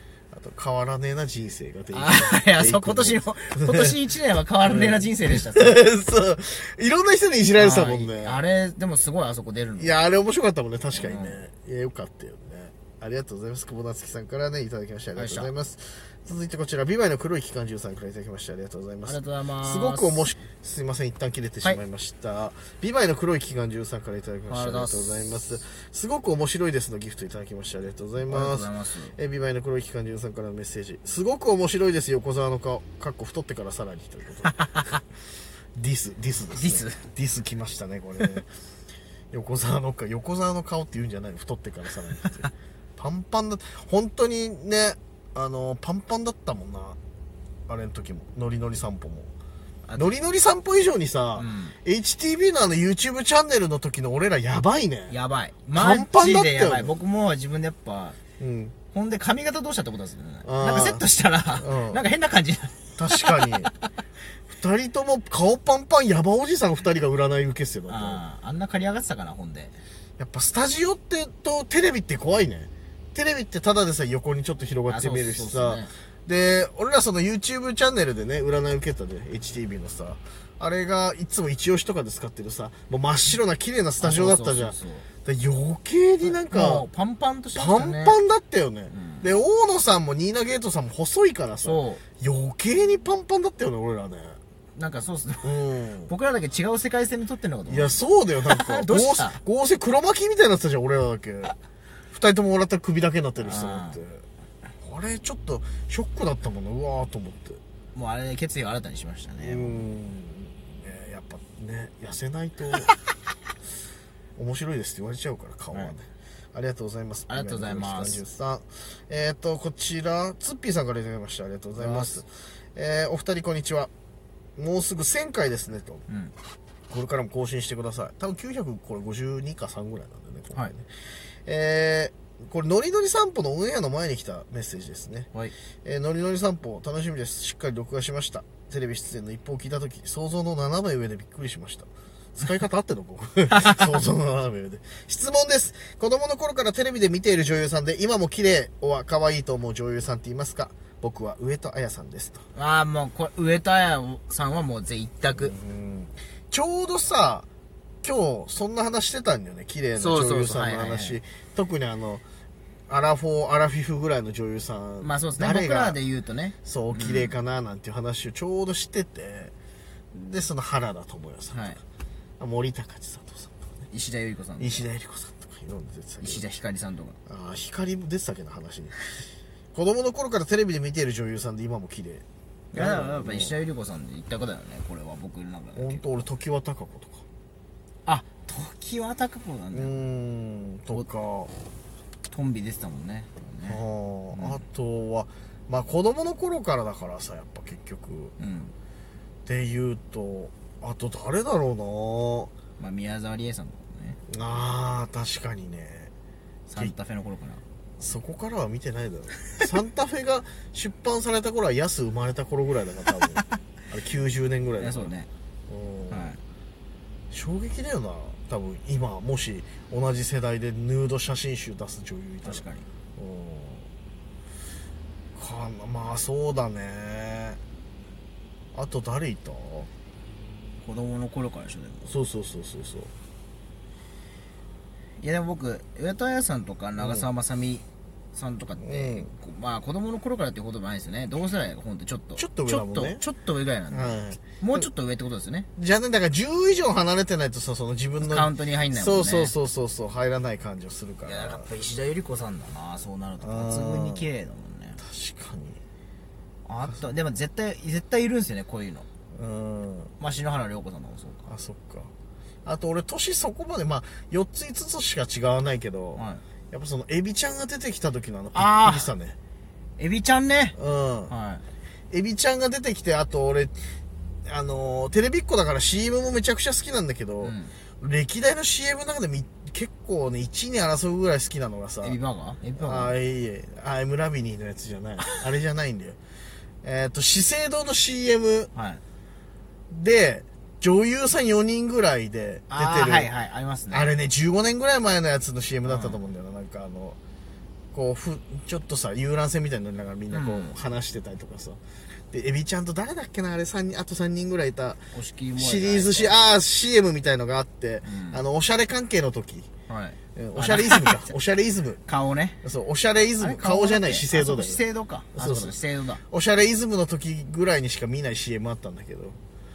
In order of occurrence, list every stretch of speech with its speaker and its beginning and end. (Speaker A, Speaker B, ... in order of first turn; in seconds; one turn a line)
Speaker A: 0.3-4.0
Speaker B: 1.9-5.8
Speaker A: 4.7-8.4
Speaker B: 7.6-9.9
Speaker A: 9.8-34.9
Speaker B: 10.9-11.4
Speaker B: 15.2-15.5
Speaker B: 19.0-20.3
Speaker B: 24.5-25.3
Speaker B: 28.2-29.1
Speaker B: 34.5-35.0
Speaker A: 35.8-38.5
Speaker B: 36.5-37.1
Speaker A: 39.3-47.0
Speaker A: 47.7-49.3
Speaker A: 50.0-55.2
Speaker B: 51.4-51.8
Speaker B: 55.1-58.2
Speaker A: 55.7-57.0
Speaker A: 58.4-58.8
Speaker B: 58.9-63.8
Speaker A: 60.4-61.1
Speaker A: 61.6-62.0
Speaker A: 63.0-63.7
Speaker A: 64.5-68.2
Speaker B: 67.9-69.8
Speaker A: 70.2-86.9
Speaker B: 74.9-75.9
Speaker B: 84.0-85.1
Speaker B: 86.2-88.2
Speaker A: 87.5-94.4
Speaker B: 88.9-89.3
Speaker B: 91.6-92.0
Speaker B: 94.8-99.4
Speaker A: 95.4-96.1
Speaker A: 97.7-101.5
Speaker A: 102.1-104.2
Speaker B: 103.4-104.0
Speaker A: 104.8-107.6
Speaker B: 107.9-109.8
Speaker A: 109.4-112.9
Speaker A: 114.4-123.9
Speaker B: 117.3-118.2
Speaker B: 121.8-122.2
Speaker A: 124.6-126.0
Speaker B: 126.1-126.3
Speaker A: 126.9-135.3
Speaker A: 135.8-152.4
Speaker B: 143.6-143.8
Speaker B: 152.6-155.5
Speaker A: 155.3-157.5
Speaker A: 158.0-162.2
Speaker B: 160.0-161.2
Speaker A: 162.9-166.0
Speaker B: 165.0-167.3
Speaker A: 166.7-169.5
Speaker A: 170.1-171.8
Speaker B: 171.5-171.8
Speaker A: 172.4-173.8
Speaker B: 173.9-174.8
Speaker A: 174.6-176.4
Speaker B: 176.2-177.2
Speaker A: 177.3-179.0
Speaker A: 179.7-183.6
Speaker B: 182.7-186.1
Speaker A: 185.8-187.2
Speaker B: 188.1-189.9
Speaker A: 189.7-191.5
Speaker B: 192.3-193.8
Speaker A: 193.7-198.3
Speaker B: 194.3-194.6
Speaker B: 198.4-198.7
Speaker A: 199.5-202.5
Speaker B: 202.8-204.2
Speaker A: 204.3-206.1
Speaker B: 206.7-207.6
Speaker A: 208.0-215.1
Speaker B: 214.8-215.3
Speaker A: 215.7-216.3
Speaker B: 216.1-216.4
Speaker A: 217.3-222.7
Speaker B: 222.4-222.9
Speaker A: 223.2-223.9
Speaker A: 225.3-227.6
Speaker A: 228.7-229.9
Speaker B: 230.8-232.1
Speaker A: 232.1-233.1
Speaker B: 235.2-245.7
Speaker A: 237.0-237.3
Speaker A: 238.8-239.3
Speaker A: 242.4-243.2
Speaker A: 243.9-244.9
Speaker A: 245.8-251.7
Speaker B: 248.2-249.6
Speaker B: 251.2-255.0
Speaker A: 253.4-254.3
Speaker A: 255.0-255.8
Speaker B: 256.7-259.1
Speaker A: 259.3-260.1
Speaker B: 260.2-261.5
Speaker A: 261.5-262.1
Speaker A: 262.6-269.4
Speaker B: 266.1-266.4
Speaker B: 268.6-269.1
Speaker B: 270.0-270.8
Speaker A: 270.8-271.3
Speaker B: 271.3-271.6
Speaker A: 272.1-273.8
Speaker A: 274.5-282.2
Speaker B: 277.4-277.7
Speaker B: 282.0-283.2
Speaker A: 282.8-286.2
Speaker A: 286.8-288.7
Speaker B: 288.7-289.0
Speaker A: 289.9-293.3
Speaker B: 292.7-294.1
Speaker A: 293.9-297.2
Speaker B: 295.9-296.2
Speaker A: 297.9-301.8
Speaker B: 300.3-300.8
Speaker A: 302.3-305.0
Speaker B: 305.1-306.4
Speaker A: 305.6-309.7
Speaker B: 308.0-308.4
Speaker B: 309.9-311.3
Speaker A: 310.4-312.0
Speaker B: 312.1-312.6
Speaker A: 312.6-314.8
Speaker B: 313.4-316.2
Speaker A: 315.4-319.4